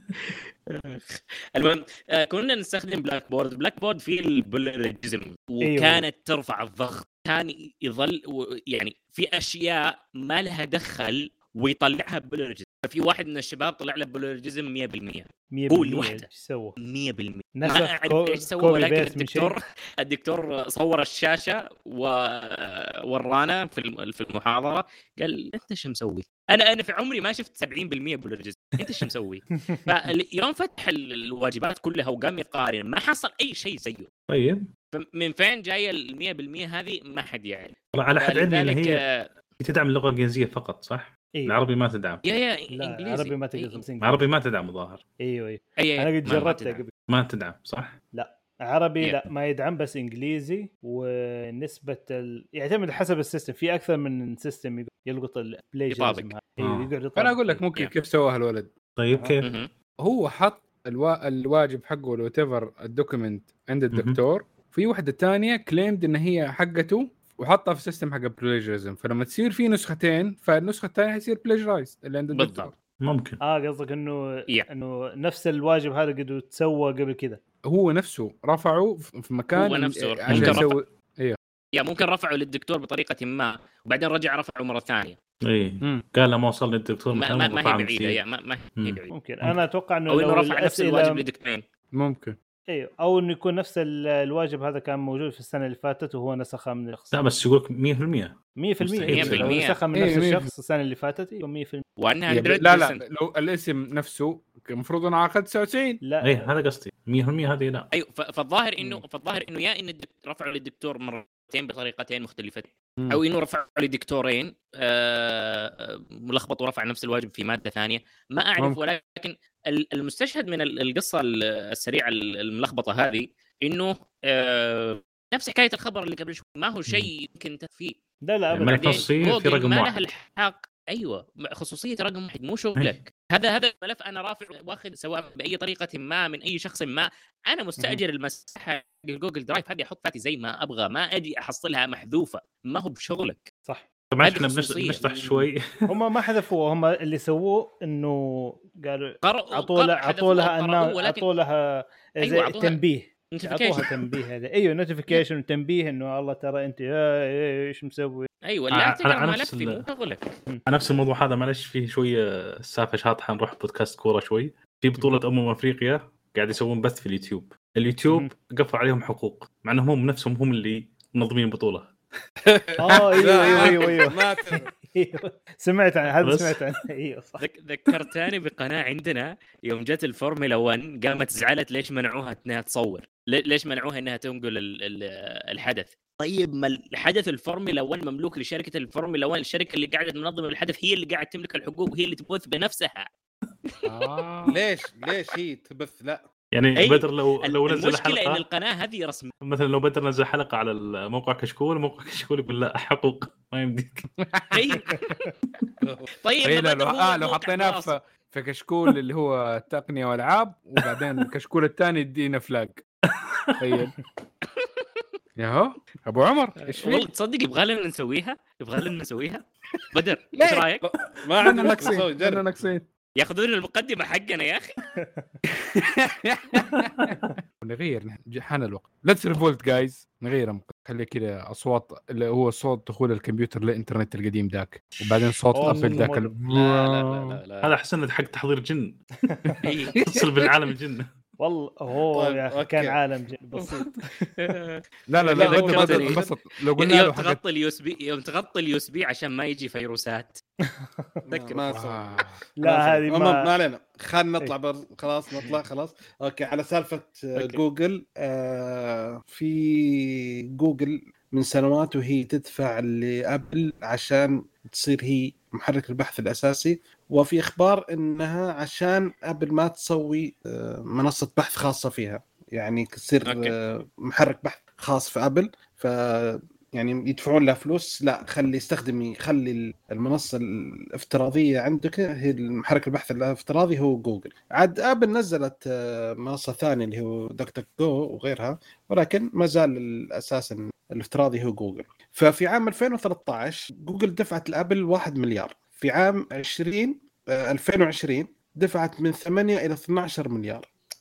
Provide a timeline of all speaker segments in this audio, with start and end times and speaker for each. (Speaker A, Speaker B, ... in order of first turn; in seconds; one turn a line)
Speaker A: 0.2-16.3
Speaker B: 5.6-6.0
Speaker B: 15.5-16.7
Speaker A: 16.8-34.1
Speaker B: 17.6-19.6
Speaker C: 34.3-34.6
Speaker A: 34.9-39.3
Speaker C: 37.9-39.0
Speaker C: 39.6-42.2
Speaker A: 42.2-43.8
Speaker B: 42.7-44.2
Speaker C: 44.0-45.0
Speaker B: 45.2-46.9
Speaker A: 45.8-46.8
Speaker C: 47.1-48.0
Speaker B: 48.1-57.4
Speaker A: 55.9-56.3
Speaker C: 56.6-56.9
Speaker D: 57.2-58.7
Speaker C: 59.0-59.5
Speaker B: 59.1-59.4
Speaker A: 59.4-59.7
Speaker D: 60.0-72.7
Speaker C: 63.9-64.2
Speaker A: 72.3-72.7
Speaker C: 73.0-73.4
Speaker B: 73.4-77.4
Speaker D: 77.7-81.4
Speaker A: 79.5-80.8
Speaker C: 80.3-80.6
Speaker A: 81.7-85.2
Speaker C: 85.5-88.2
Speaker A: 87.2-89.1
Speaker C: 88.8-89.5
Speaker B: 89.1-91.2
Speaker A: 90.1-91.6
Speaker D: 91.9-92.3
Speaker B: 92.7-97.2
Speaker C: 97.1-99.5
Speaker B: 98.6-101.8
Speaker A: 99.1-99.8
Speaker D: 99.9-100.4
Speaker A: 102.0-103.0
Speaker D: 102.3-106.0
Speaker B: 106.0-106.5
Speaker C: 106.2-107.9
Speaker A: 107.9-128.0
Speaker B: 128.2-129.0
Speaker C: 128.5-130.0
Speaker A: 128.6-143.5
Speaker C: 144.1-145.8
Speaker A: 144.2-145.4
Speaker B: 145.9-158.3
Speaker A: 149.2-151.2
Speaker A: 152.2-152.8
Speaker A: 153.3-153.8
Speaker C: 153.8-154.1
Speaker A: 158.4-160.3
Speaker C: 158.7-159.8
Speaker C: 160.7-171.9
Speaker E: 172.5-174.7
Speaker B: 172.8-174.3
Speaker B: 174.8-177.4
Speaker C: 176.2-176.8
Speaker A: 177.4-193.1
Speaker D: 193.8-194.6
Speaker E: 194.5-196.2
Speaker C: 196.5-198.4
Speaker A: 196.8-199.3
Speaker C: 199.4-204.1
Speaker D: 204.3-204.6
Speaker A: 204.5-205.0
Speaker E: 205.8-206.1
Speaker A: 206.2-207.9
Speaker D: 206.4-212.8
Speaker C: 213.1-213.6
Speaker D: 213.6-213.9
Speaker A: 214.4-215.0
Speaker D: 215.4-217.1
Speaker A: 216.6-220.8
Speaker D: 220.3-220.7
Speaker E: 221.2-222.4
Speaker D: 221.4-222.8
Speaker A: 223.2-224.7
Speaker B: 225.0-225.2
Speaker D: 225.7-236.3
Speaker C: 226.8-227.3
Speaker B: 235.5-236.2
Speaker C: 235.6-239.3
Speaker A: 236.5-237.7
Speaker A: 239.6-239.9
Speaker C: 240.0-241.1
Speaker D: 240.1-240.5
Speaker B: 241.4-244.4
Speaker E: 242.1-243.0
Speaker A: 244.4-244.8
Speaker D: 245.1-247.4
Speaker E: 245.2-246.3
Speaker A: 245.3-246.2
Speaker A: 246.8-250.4
Speaker B: 250.6-251.2
Speaker E: 251.3-300.7
Speaker A: 251.3-251.6
Speaker D: 251.7-252.4
Speaker B: 252.6-253.5
Speaker A: 257.4-257.6
Speaker A: 273.2-273.5